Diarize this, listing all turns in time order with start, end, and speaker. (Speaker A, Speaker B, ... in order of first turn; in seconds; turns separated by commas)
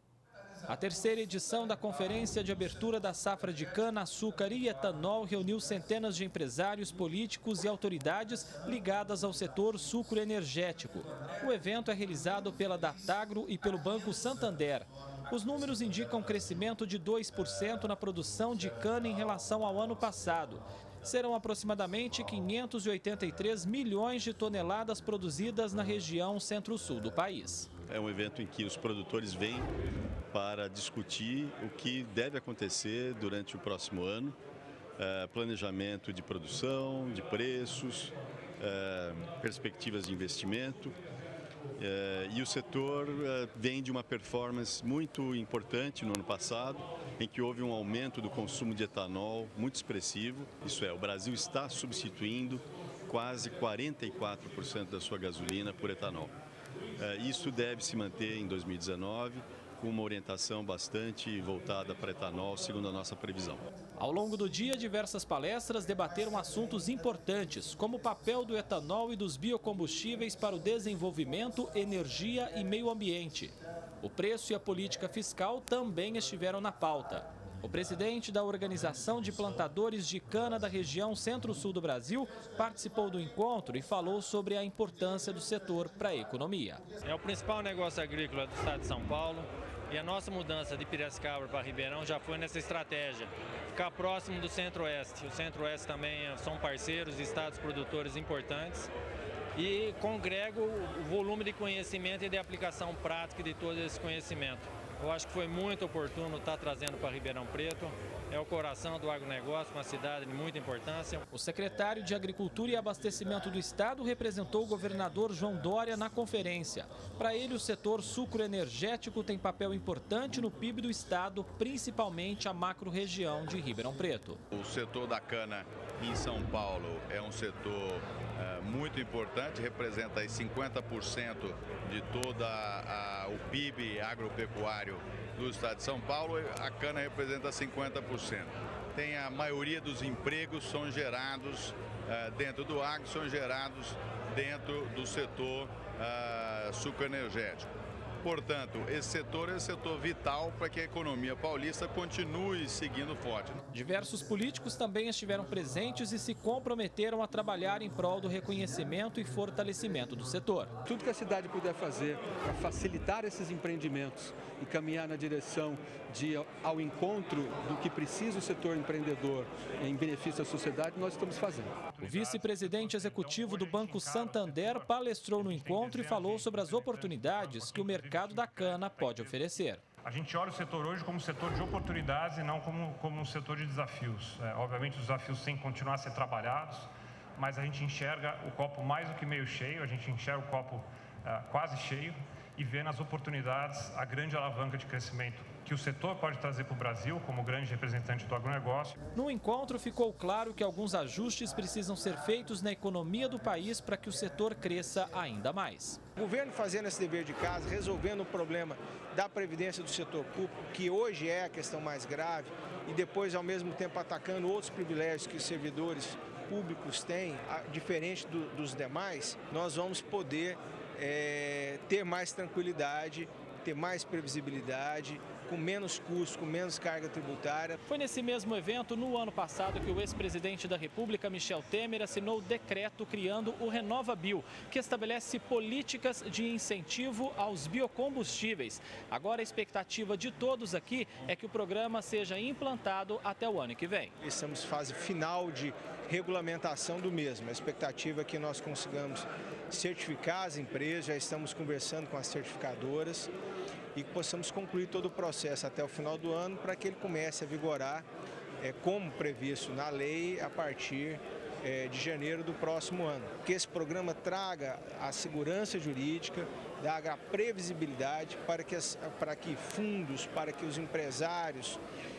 Speaker A: 0.7-27.7, Speaker B: 27.9-29.7, Speaker B: 30.3-34.4, Speaker B: 35.0-41.0, Speaker B: 41.8-56.3, Speaker B: 57.0-63.6, Speaker A: 64.0-86.8, Speaker C: 87.0-98.9, Speaker C: 99.5-111.2, Speaker A: 111.3-124.4, Speaker D: 124.5-147.7, Speaker D: 148.2-153.6, Speaker A: 153.7-160.7, Speaker E: 160.8-171.7, Speaker F: 171.8-179.4, Speaker A: 172.0-179.8, Speaker F: 180.0-186.9, Speaker F: 187.4-199.0, Speaker A: 199.1-206.0, Speaker G: 206.2-227.8, Speaker A: 227.8-244.1, Speaker G: 244.2-253.3, Speaker G: 253.9-258.1, Speaker G: 258.6-271.8